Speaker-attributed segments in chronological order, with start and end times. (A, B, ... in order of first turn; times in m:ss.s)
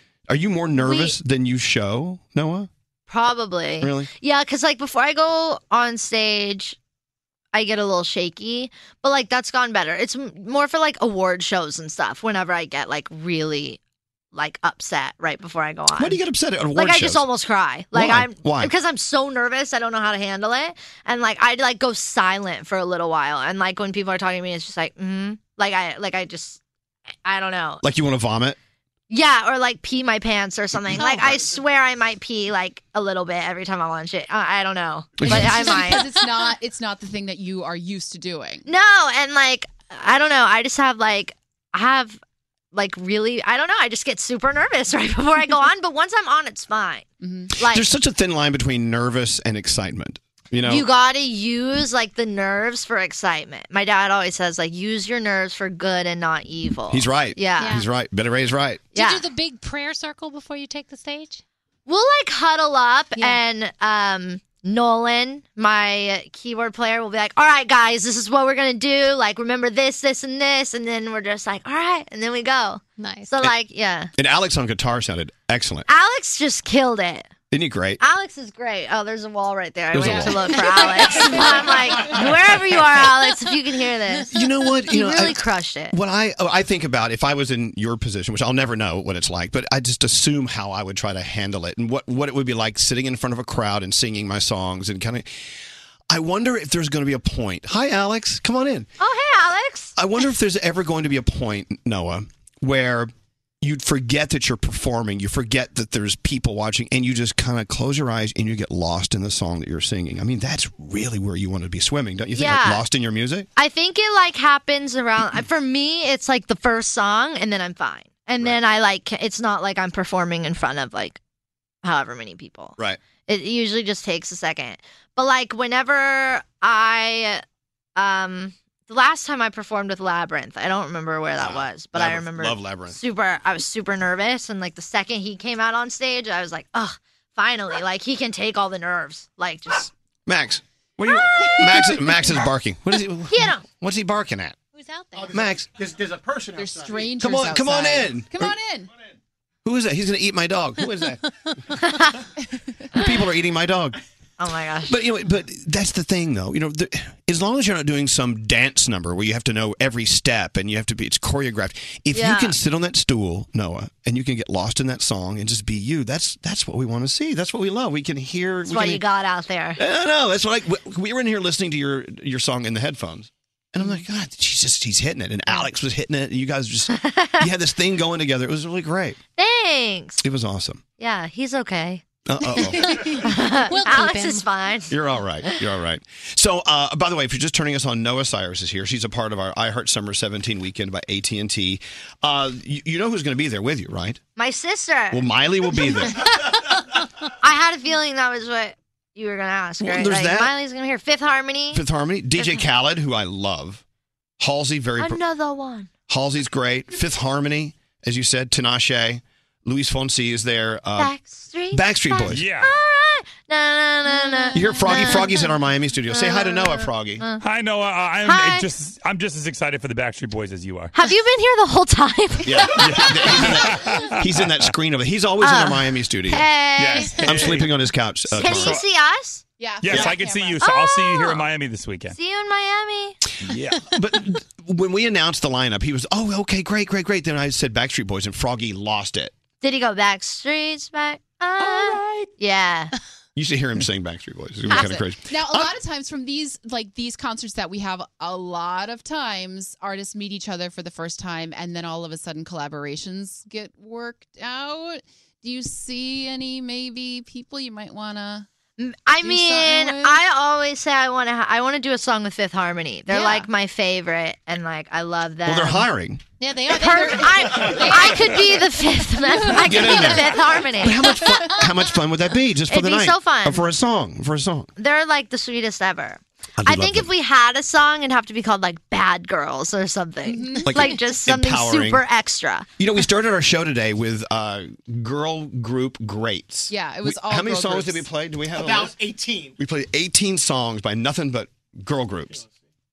0:00.3-0:02.7 A
0:00.8-0:01.2 B
0:03.1-0:06.8 B
0:03.8-0:04.1 A
0:07.5-0:13.8 B
0:14.3-0:16.2 B
0:16.0-0:17.2 A
0:16.8-0:26.6 B
0:17.9-0:18.7 A
0:27.2-0:27.8 B
0:27.8-0:28.6 A
0:29.1-0:36.1 B
0:30.8-0:31.2 A
0:31.0-0:31.4 C
0:35.2-0:35.8 A
0:35.2-0:38.7 D
0:35.6-0:36.0 C
0:38.6-0:42.2 B
0:42.7-0:47.0 B
0:47.2-0:47.5 D
0:47.6-0:47.9 B
0:47.6-0:50.9 A
0:50.7-0:57.8 B
0:56.9-0:58.9 A
0:57.5-0:57.9 C
0:58.9-1:01.4 C
0:59.0-0:59.2 B
1:01.9-1:14.1 B
1:03.2-1:03.4 C
1:13.0-1:13.5 C
1:14.2-1:15.9 A
1:15.9-1:17.3 B
1:17.5-1:18.0 A
1:18.0-1:24.3 B
1:19.9-1:21.6 A
1:20.0-1:21.7 C
1:24.3-1:35.3 A
1:24.9-1:26.0 B
1:36.1-1:38.9 A
1:39.0-1:40.0 B
1:40.0-1:53.5 A
1:52.4-1:52.8 B
1:53.6-2:01.2 B
2:01.8-2:02.8 B
2:03.3-2:07.4 B
2:08.0-2:19.9 B
2:11.4-2:13.0 A
2:20.3-2:24.6 A
2:21.1-2:22.1 D
2:23.3-2:23.6 B
2:24.7-2:25.4 C
2:25.1-2:27.2 E
2:25.3-2:25.7 A
2:26.6-2:28.9 D
2:27.2-2:28.6 A
2:29.6-2:31.2 A
2:31.8-2:32.2 B
2:33.0-2:34.0 A
2:34.4-2:34.9 B
2:34.9-2:49.0 A
2:42.1-2:42.6 B
2:48.7-2:49.8 B
2:49.8-2:59.2 A
2:56.9-2:57.4 B
2:59.4-3:00.2 B
3:00.2-3:00.8 A
3:01.0-3:02.1 B
3:02.3-3:03.1 A
3:02.6-3:04.8 C
3:03.2-3:04.9 B
3:04.9-3:14.2 A
3:14.4-3:16.6 B
3:15.1-3:16.2 A
3:17.4-3:21.8 B
3:19.8-3:20.5 A
3:21.7-3:23.8 A
3:24.4-3:25.2 A
3:25.0-3:25.9 B
3:26.1-3:31.1 A
3:31.0-3:35.5 B
3:31.7-3:32.5 A
3:32.3-3:32.7 F
3:34.1-3:35.0 C
3:34.5-3:37.2 A
3:36.1-3:37.4 B
3:37.4-3:40.9 F
3:38.2-3:38.7 B
3:40.9-3:43.0 B
3:42.4-3:46.5 A
3:42.7-3:44.7 F
3:45.4-3:47.2 B
3:46.8-3:47.8 F
3:46.9-3:47.3 C
3:47.2-3:48.8 A
3:48.4-3:49.4 B
3:48.4-3:48.9 F
3:49.6-3:50.6 D
3:49.8-3:52.2 F
3:50.6-3:51.4 B
3:52.1-3:53.2 B
3:53.5-3:53.8 F
3:53.9-3:59.3 A
3:59.6-4:02.9 B
4:03.4-4:05.7 A
4:04.7-4:05.0 B
4:04.7-4:18.5 D
4:18.8-4:25.9 B
4:19.2-4:20.2 D
4:23.1-4:23.5 D
4:25.5-4:26.2 A
4:26.4-4:28.7 C
4:26.7-4:31.2 B
4:29.2-4:31.7 C
4:29.6-4:34.7 A
4:32.7-4:33.6 B
4:34.8-4:42.7 B
4:36.6-4:37.1 A
4:40.2-4:40.7 D
4:40.7-4:42.0 A
4:42.8-4:49.0 A
4:46.7-4:48.0 D
4:48.5-4:49.6 E
4:49.6-4:52.4 A